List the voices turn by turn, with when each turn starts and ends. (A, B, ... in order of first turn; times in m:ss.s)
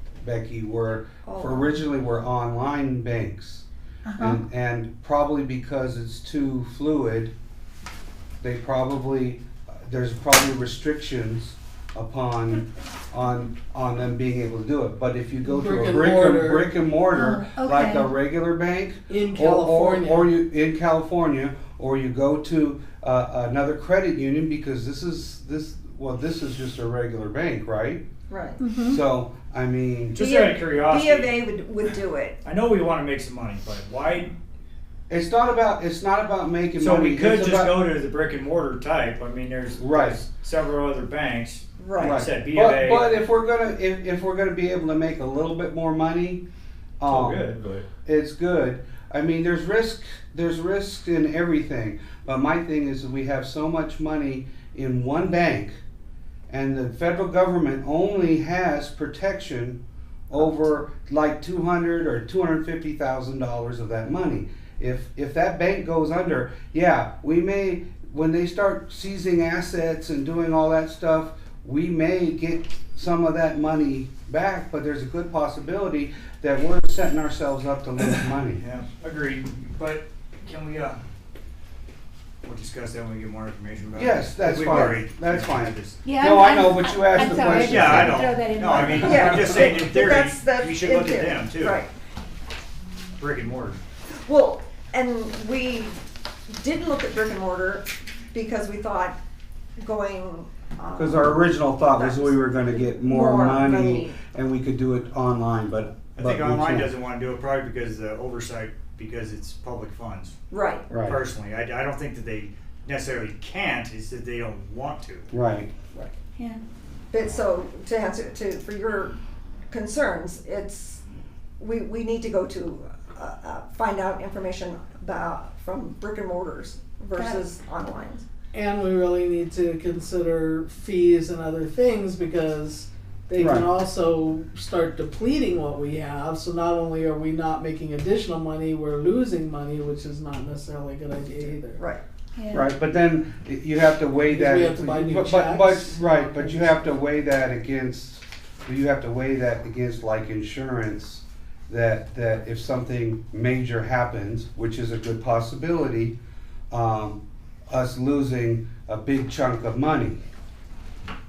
0:00.2-0:03.6 A
0:01.2-0:01.8 B
0:04.1-0:04.4 C
0:04.2-0:07.3 A
0:08.4-0:28.0 A
0:15.4-0:16.7 D
0:17.1-0:18.1 C
0:19.1-0:20.3 D
0:28.3-0:28.6 B
0:28.6-0:29.0 C
0:28.8-0:30.2 A
0:30.1-0:31.4 E
0:30.1-0:32.4 B
0:32.4-0:34.3 E
0:35.1-0:37.8 A
0:36.8-0:43.2 E
0:39.8-0:40.2 A
0:41.8-0:42.2 B
0:42.0-0:46.4 A
0:47.0-0:47.5 A
0:47.0-0:47.9 E
0:48.0-0:55.8 A
0:56.5-1:18.6 A
1:18.6-1:21.0 E
1:22.4-1:26.0 E
1:23.9-1:28.2 A
1:26.0-1:29.4 C
1:27.4-1:31.8 E
1:28.8-1:29.1 A
1:28.8-1:31.9 B
1:33.2-1:33.8 E
1:34.2-1:36.0 B
1:36.5-1:39.2 B
1:39.8-1:44.2 B
1:41.0-1:46.9 A
1:46.1-1:50.4 E
1:50.5-1:50.9 B
1:50.9-1:51.2 A
1:51.0-1:55.3 E
1:55.3-1:55.7 A
1:57.1-1:59.2 B
1:59.7-2:01.0 B
2:01.6-2:08.2 B
2:08.5-2:21.8 D
2:13.4-2:13.7 A
2:21.8-2:22.0 B
2:22.5-2:36.2 A
2:24.3-2:26.8 D
2:36.7-2:40.2 A